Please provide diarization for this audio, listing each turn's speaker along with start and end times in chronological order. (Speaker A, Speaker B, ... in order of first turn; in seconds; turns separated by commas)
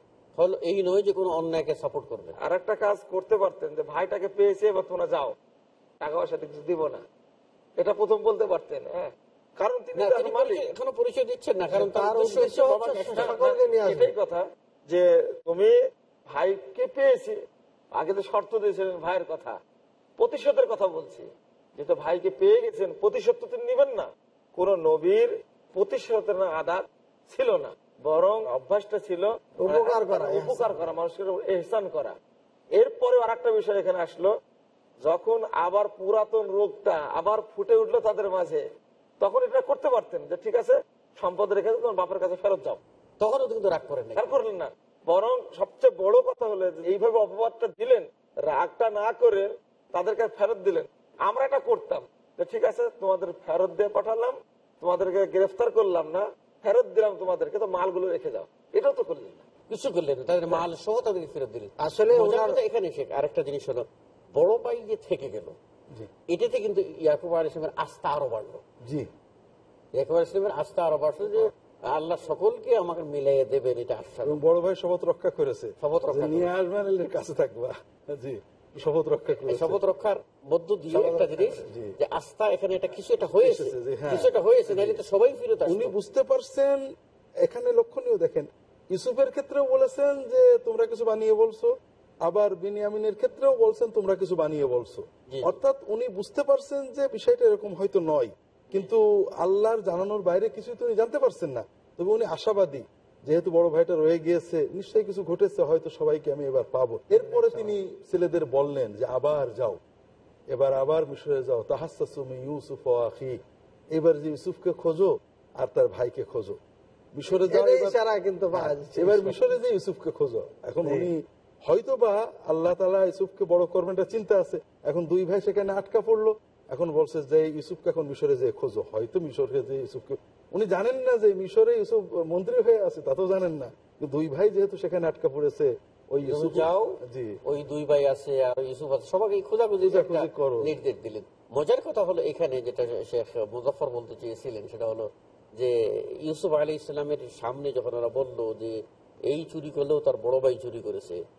Speaker A: 0.4-2.4, Speaker B: 2.4-5.3, Speaker B: 6.0-7.0, Speaker B: 7.8-10.7, Speaker A: 9.9-13.4, Speaker C: 11.7-14.1, Speaker B: 13.0-15.8, Speaker B: 16.3-17.4, Speaker B: 18.0-19.6, Speaker B: 20.2-32.2, Speaker C: 29.6-30.9, Speaker B: 32.8-34.3, Speaker B: 35.0-38.6, Speaker B: 39.2-42.8, Speaker A: 43.2-44.4, Speaker B: 44.2-59.5, Speaker A: 59.7-65.6, Speaker C: 61.8-62.6, Speaker A: 66.3-68.6, Speaker A: 70.0-74.4, Speaker D: 74.2-79.8, Speaker A: 75.8-76.5, Speaker A: 79.5-85.9, Speaker D: 80.9-81.9, Speaker D: 83.4-85.0, Speaker D: 85.7-86.8, Speaker D: 87.4-91.7, Speaker D: 92.2-109.8, Speaker A: 95.3-95.6, Speaker C: 107.3-107.7, Speaker D: 110.5-113.4, Speaker D: 113.9-116.6, Speaker D: 117.2-118.0, Speaker C: 117.3-119.5, Speaker D: 118.5-137.4, Speaker A: 136.2-151.2, Speaker D: 139.8-140.7